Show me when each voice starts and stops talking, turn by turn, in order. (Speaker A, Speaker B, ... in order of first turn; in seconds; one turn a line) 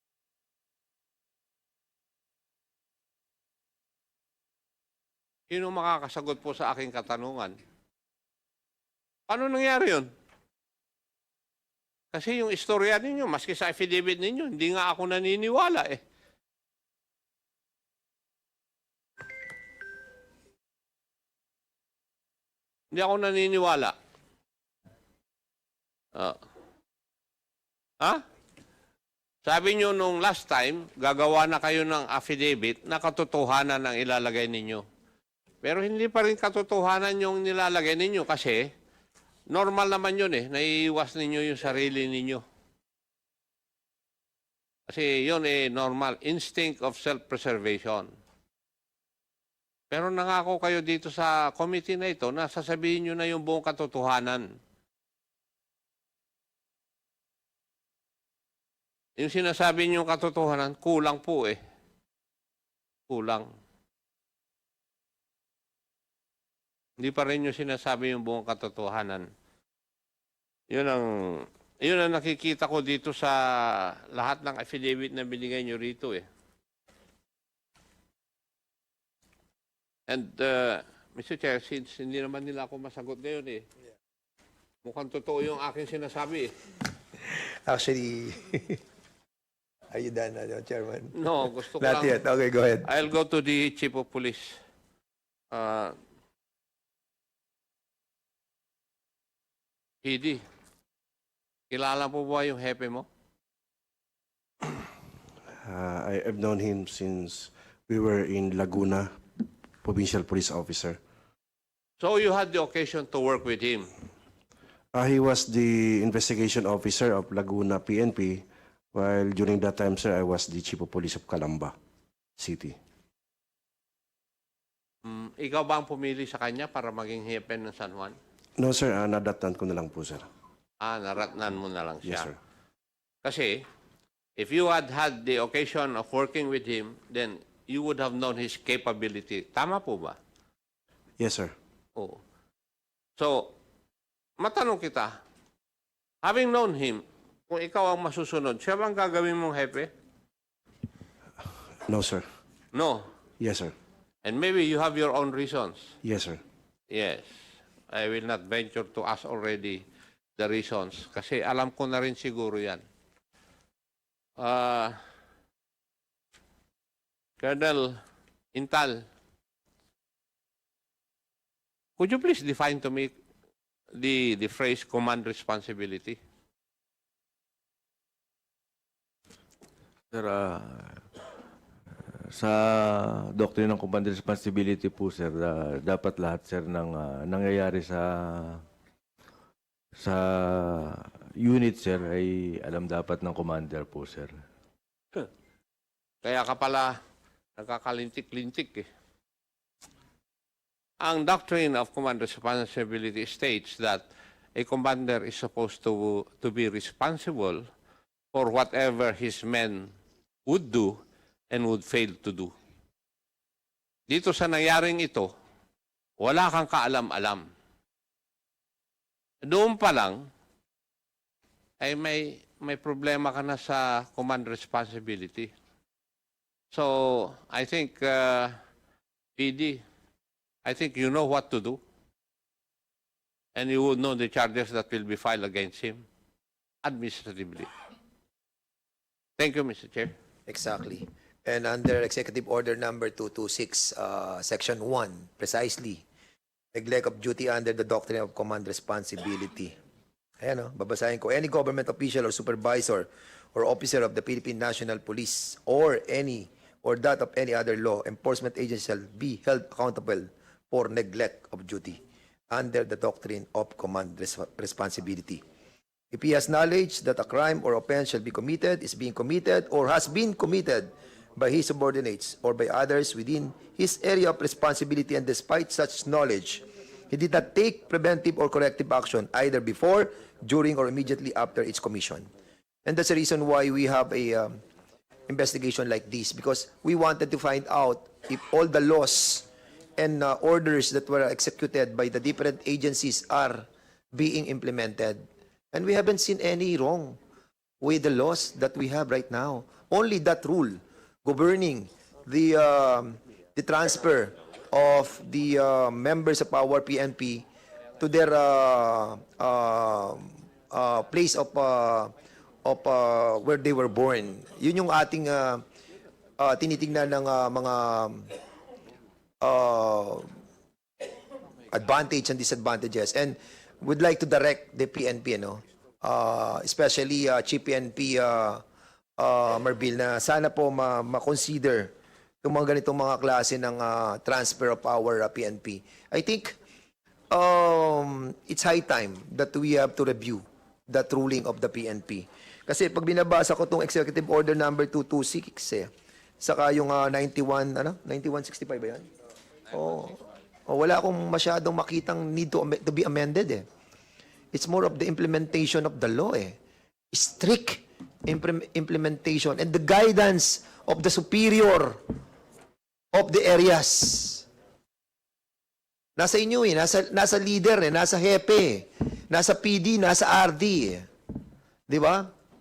Speaker A: 5.5-7.5
Speaker A: 9.3-10.1
Speaker A: 12.1-16.0
Speaker A: 22.9-23.9
Speaker A: 29.4-34.8
Speaker A: 35.6-38.7
Speaker A: 39.5-42.4
Speaker A: 44.9-48.1
Speaker A: 49.9-54.5
Speaker A: 59.2-61.6
Speaker A: 63.1-63.5
Speaker A: 67.0-69.3
Speaker A: 70.7-76.2
Speaker A: 80.1-83.6
Speaker A: 84.8-86.5
Speaker B: 87.2-88.8
Speaker B: 89.9-91.2
Speaker A: 91.1-92.2
Speaker B: 91.8-92.9
Speaker A: 92.8-94.6
Speaker A: 95.5-95.9
Speaker A: 100.0-100.4
Speaker A: 101.7-103.0
Speaker C: 105.6-109.1
Speaker C: 109.8-111.0
Speaker A: 112.0-113.9
Speaker C: 114.9-121.7
Speaker C: 122.4-122.8
Speaker A: 125.0-128.2
Speaker C: 128.6-130.2
Speaker A: 130.8-132.3
Speaker A: 133.2-133.6
Speaker A: 134.4-140.2
Speaker C: 141.2-141.5
Speaker A: 143.2-143.5
Speaker A: 144.4-145.2
Speaker A: 146.2-149.9
Speaker C: 151.8-152.2
Speaker A: 152.7-153.1
Speaker C: 153.4-153.7
Speaker A: 154.2-155.9
Speaker C: 156.0-156.4
Speaker A: 156.9-157.3
Speaker A: 157.9-159.8
Speaker A: 160.4-162.8
Speaker A: 164.4-165.0
Speaker A: 167.4-168.0
Speaker A: 168.5-169.0
Speaker A: 172.0-173.1
Speaker A: 173.9-176.2
Speaker D: 180.1-181.0
Speaker D: 182.4-188.6
Speaker D: 190.0-194.3
Speaker A: 196.2-196.9
Speaker A: 197.6-198.9
Speaker A: 201.0-207.6
Speaker A: 208.3-209.9
Speaker A: 210.5-210.9
Speaker A: 211.5-212.5
Speaker A: 214.1-215.3
Speaker A: 216.2-217.4
Speaker A: 219.4-220.2
Speaker A: 221.8-225.5
Speaker A: 226.7-228.6
Speaker A: 229.4-229.8
Speaker A: 230.6-231.8
Speaker A: 233.6-236.0
Speaker A: 236.8-237.7
Speaker A: 239.4-240.1
Speaker B: 240.5-246.0
Speaker B: 246.7-249.7
Speaker B: 250.4-262.0
Speaker B: 262.5-265.4
Speaker B: 266.1-282.3
Speaker B: 282.8-284.6
Speaker B: 285.3-297.2
Speaker B: 297.8-307.4
Speaker B: 308.0-312.1
Speaker B: 312.6-315.6
Speaker B: 316.4-318.3
Speaker B: 319.4-320.3
Speaker B: 321.7-328.6
Speaker B: 329.2-331.9
Speaker B: 332.4-336.6
Speaker B: 337.3-345.9
Speaker B: 346.4-349.0
Speaker B: 349.7-353.6
Speaker B: 354.5-356.5
Speaker B: 357.1-362.0
Speaker B: 363.1-364.4
Speaker B: 366.2-371.0
Speaker B: 371.9-372.3